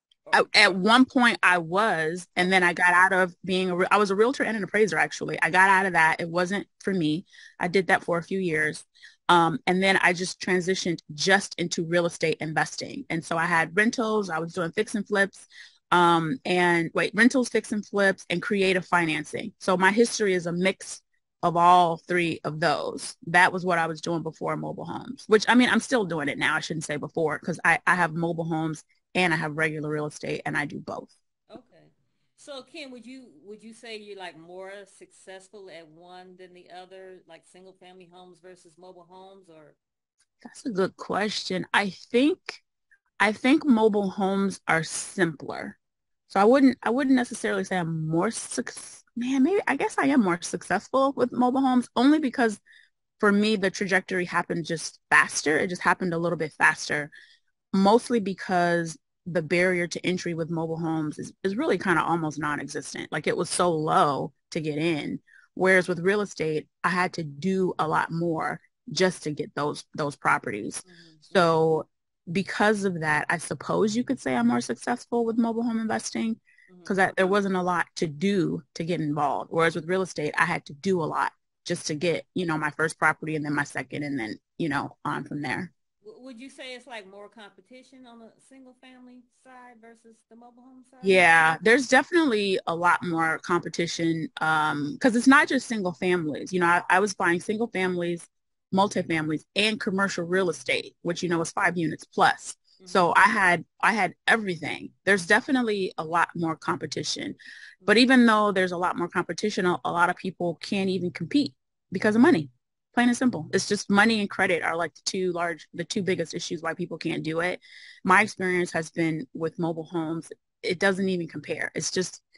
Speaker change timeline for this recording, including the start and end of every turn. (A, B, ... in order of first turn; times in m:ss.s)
0:00.3-0:00.5 A
0:00.3-0:31.1 B
0:02.4-0:02.7 A
0:31.5-0:39.8 A
0:40.4-0:42.6 B
0:43.2-0:45.8 B
0:46.3-0:52.6 B
0:53.2-0:57.1 B
0:57.7-1:25.7 B
1:10.8-1:11.6 A
1:16.7-1:17.4 A
1:26.0-1:31.6 A
1:31.0-2:02.2 B
1:42.8-1:43.2 A